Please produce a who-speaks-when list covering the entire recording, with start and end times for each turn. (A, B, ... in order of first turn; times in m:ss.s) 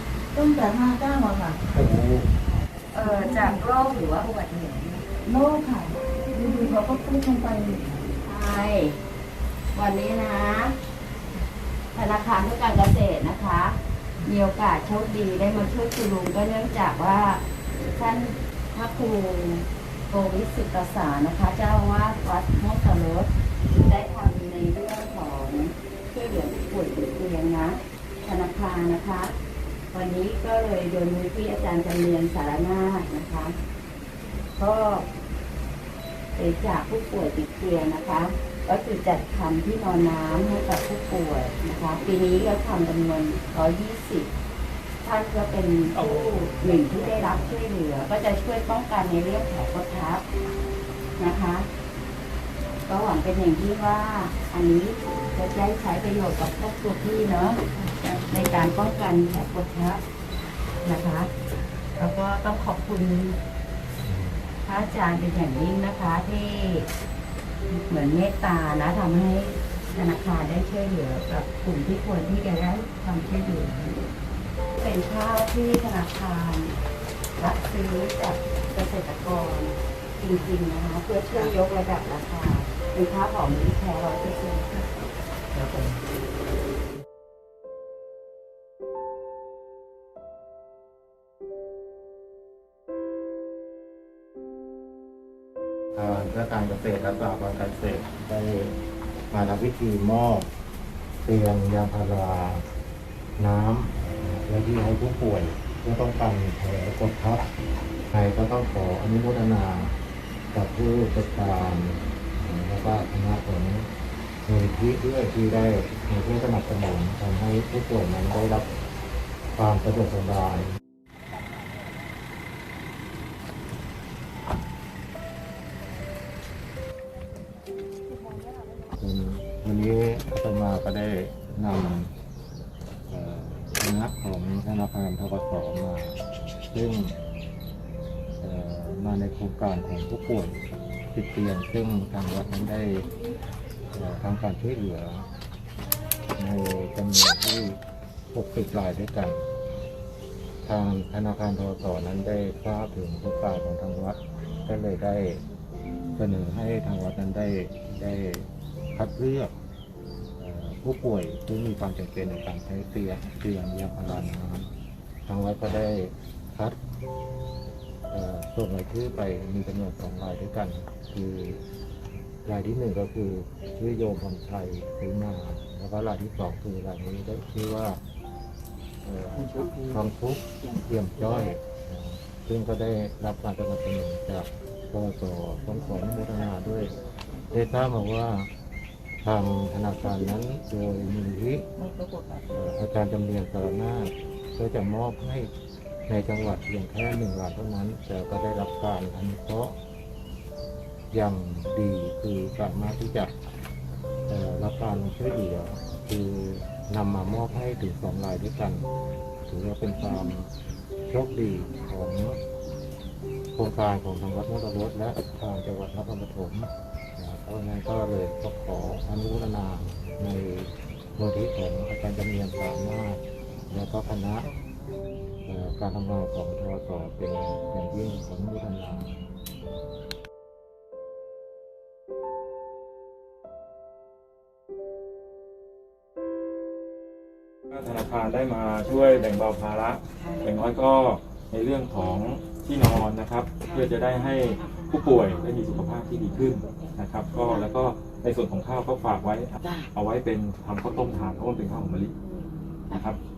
0:00.3-0:01.7 A
0:01.7-0:02.3 B
0:02.9-0:05.0 C
0:03.0-0:03.6 A
0:05.2-0:08.0 A
0:08.2-0:09.0 C
0:09.7-0:10.8 C
0:11.9-0:29.4 C
0:29.9-0:33.6 C
0:34.6-0:35.1 C
0:36.3-0:44.3 C
0:45.0-0:50.2 C
0:46.0-0:46.5 A
0:51.2-0:51.7 C
0:52.8-1:00.0 C
1:00.8-1:01.3 C
1:02.0-1:03.4 C
1:04.0-1:04.4 B
1:04.6-1:06.9 C
1:07.7-1:14.0 C
1:14.8-1:16.8 C
1:17.4-1:24.9 C
1:25.5-1:26.0 A
1:35.9-1:38.8 B
1:39.3-1:40.5 B
1:41.2-1:42.6 B
1:43.4-1:47.5 B
1:48.1-1:50.0 B
1:50.5-1:53.9 B
1:54.4-1:58.7 B
1:59.5-2:00.7 B
2:09.0-2:12.1 B
2:13.1-2:17.2 B
2:18.4-2:23.1 B
2:23.9-2:25.3 B
2:26.4-2:27.8 B
2:28.3-2:29.4 B
2:30.6-2:35.4 B
2:36.1-2:39.5 B
2:40.4-2:44.7 B
2:45.2-2:46.8 B
2:48.1-2:51.6 B
2:52.4-2:58.0 B
2:59.0-3:08.5 B
3:09.2-3:11.7 B
3:11.8-3:12.4 A
3:12.5-3:15.5 B
3:16.1-3:19.8 B
3:21.1-3:23.3 B
3:24.3-3:28.9 B
3:29.5-3:30.5 B
3:31.1-3:32.4 B
3:33.5-3:44.5 B
3:45.4-3:49.1 B
3:57.7-4:12.1 D
4:12.9-4:13.2 D